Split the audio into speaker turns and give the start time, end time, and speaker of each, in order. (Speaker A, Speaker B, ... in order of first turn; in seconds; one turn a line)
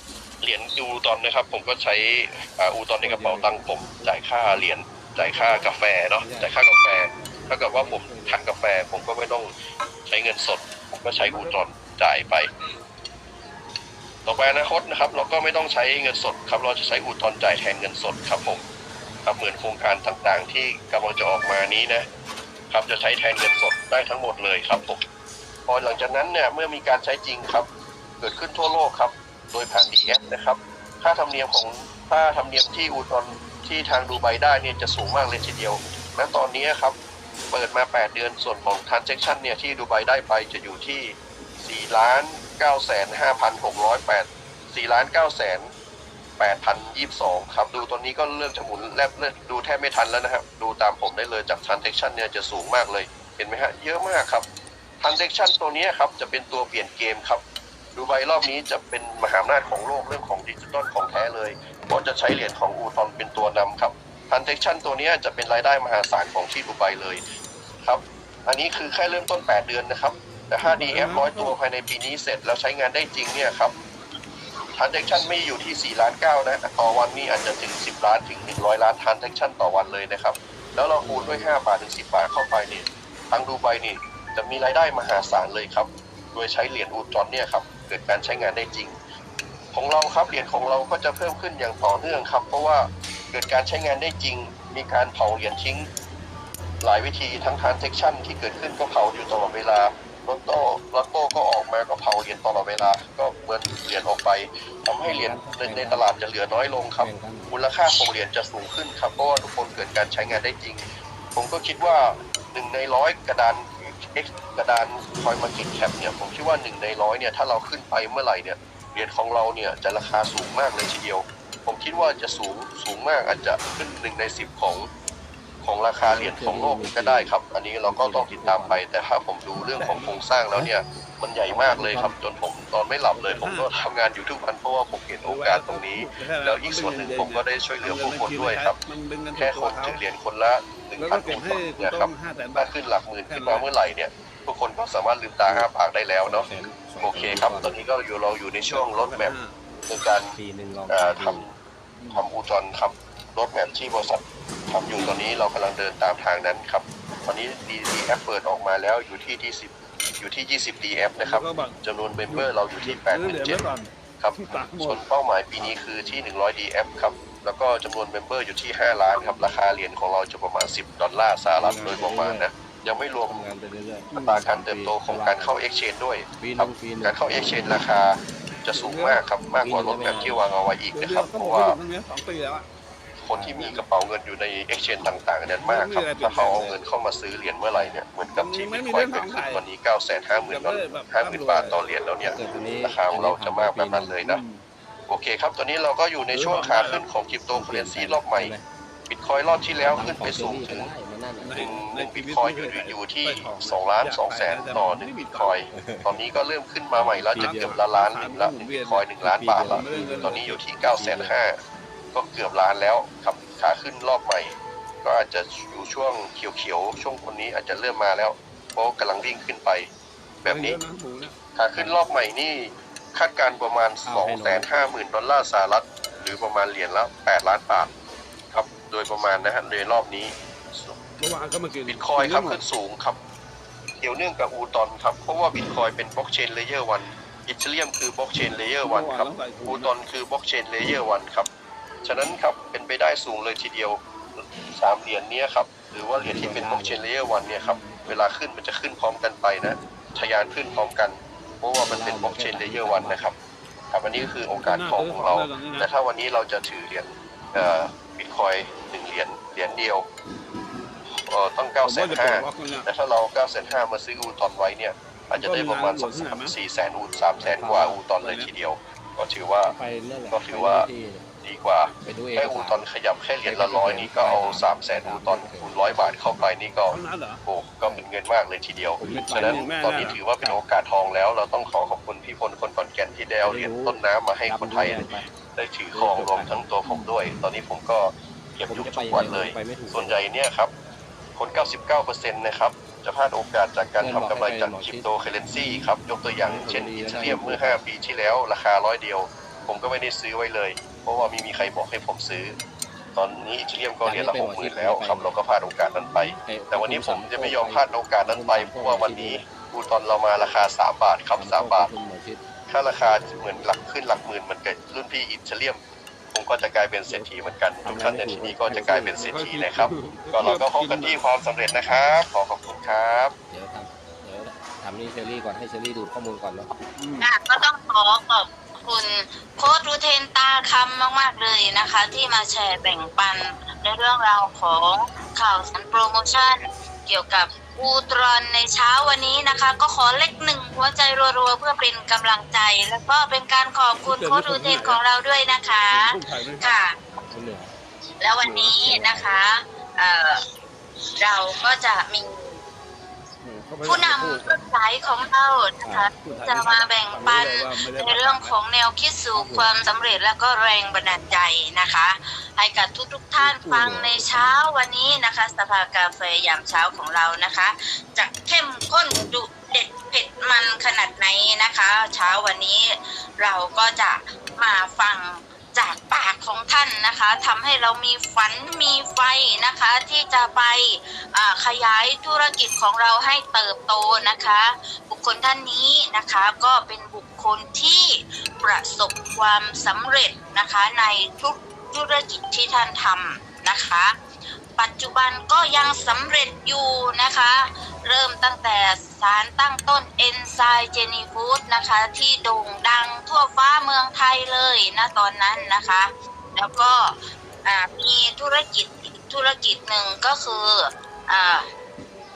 Speaker A: 0.4-9.5
Speaker B: 3.0-4.2
Speaker B: 5.2-6.6
Speaker B: 7.1-8.4
Speaker A: 10.1-12.5
Speaker B: 11.2-11.6
Speaker A: 14.3-18.6
Speaker A: 19.2-22.1
Speaker A: 22.7-25.0
Speaker A: 25.7-27.7
Speaker A: 28.2-37.0
Speaker A: 37.5-45.7
Speaker A: 46.4-54.5
Speaker A: 55.0-57.4
Speaker A: 58.0-67.2
Speaker A: 67.8-73.8
Speaker C: 70.7-71.5
Speaker A: 74.8-89.0
Speaker B: 81.0-81.6
Speaker A: 89.7-95.9
Speaker A: 96.8-110.8
Speaker B: 105.0-107.5
Speaker A: 111.3-124.9
Speaker A: 125.6-138.8
Speaker B: 126.0-127.3
Speaker B: 127.8-128.8
Speaker C: 129.7-130.2
Speaker B: 131.5-132.1
Speaker C: 133.1-133.7
Speaker C: 135.2-140.0
Speaker A: 139.3-149.3
Speaker C: 141.0-142.7
Speaker C: 143.3-143.7
Speaker B: 146.2-147.8
Speaker C: 148.6-149.6
Speaker A: 149.9-150.3
Speaker B: 150.4-151.4
Speaker A: 150.9-151.5
Speaker A: 152.1-163.6
Speaker C: 161.2-161.8
Speaker C: 162.3-165.0
Speaker A: 164.2-173.4
Speaker B: 165.6-165.9
Speaker B: 171.6-172.5
Speaker B: 173.3-175.6
Speaker C: 174.1-174.4
Speaker A: 174.1-181.8
Speaker B: 176.4-177.8
Speaker C: 178.7-179.2
Speaker B: 179.6-180.4
Speaker C: 180.9-182.7
Speaker A: 183.2-194.4
Speaker B: 183.3-183.8
Speaker C: 185.6-186.8
Speaker B: 187.7-188.0
Speaker C: 188.4-189.6
Speaker C: 190.5-191.8
Speaker B: 192.2-194.2
Speaker C: 194.2-194.6
Speaker A: 195.1-198.5
Speaker C: 196.3-197.1
Speaker B: 197.5-198.7
Speaker A: 199.1-200.9
Speaker B: 199.8-201.7
Speaker C: 201.4-205.7
Speaker A: 201.6-211.6
Speaker B: 205.7-206.2
Speaker B: 206.9-207.8
Speaker C: 207.4-209.1
Speaker B: 209.2-211.4
Speaker C: 209.7-210.6
Speaker A: 212.1-219.9
Speaker A: 220.4-220.8
Speaker C: 220.4-221.3
Speaker A: 221.6-227.9
Speaker B: 224.1-224.7
Speaker A: 228.5-231.0
Speaker C: 231.2-232.6
Speaker A: 231.9-233.2
Speaker A: 234.0-241.5
Speaker C: 238.8-239.9
Speaker A: 242.0-253.3
Speaker B: 246.2-247.1
Speaker B: 251.8-253.2
Speaker A: 253.9-260.1
Speaker C: 254.5-255.9
Speaker A: 261.1-269.7
Speaker C: 261.8-262.9
Speaker C: 265.4-266.6
Speaker B: 267.4-268.1
Speaker C: 268.2-268.5
Speaker B: 269.6-271.3
Speaker A: 270.3-270.9
Speaker A: 271.4-290.7
Speaker B: 272.1-272.8
Speaker B: 273.4-276.8
Speaker C: 276.9-277.4
Speaker B: 279.0-280.2
Speaker C: 279.0-280.6
Speaker B: 283.4-285.3
Speaker B: 285.9-286.7
Speaker B: 288.7-290.2
Speaker A: 291.4-302.6
Speaker B: 294.0-297.8
Speaker A: 303.2-311.9
Speaker B: 304.0-305.4
Speaker B: 306.0-309.5
Speaker B: 311.4-312.4
Speaker A: 312.7-315.8
Speaker A: 316.3-323.3
Speaker B: 317.8-319.2
Speaker C: 319.2-321.2
Speaker B: 323.5-326.7
Speaker C: 327.0-327.3
Speaker D: 327.2-346.9
Speaker C: 344.1-345.0
Speaker C: 345.9-346.8
Speaker B: 347.3-347.7
Speaker D: 348.2-350.4
Speaker C: 348.4-348.7
Speaker B: 348.5-349.3
Speaker D: 351.2-352.6
Speaker C: 353.4-354.7
Speaker D: 353.9-394.1
Speaker B: 355.8-356.1
Speaker C: 356.2-358.6
Speaker B: 359.3-359.7
Speaker B: 363.4-364.6
Speaker D: 394.8-411.7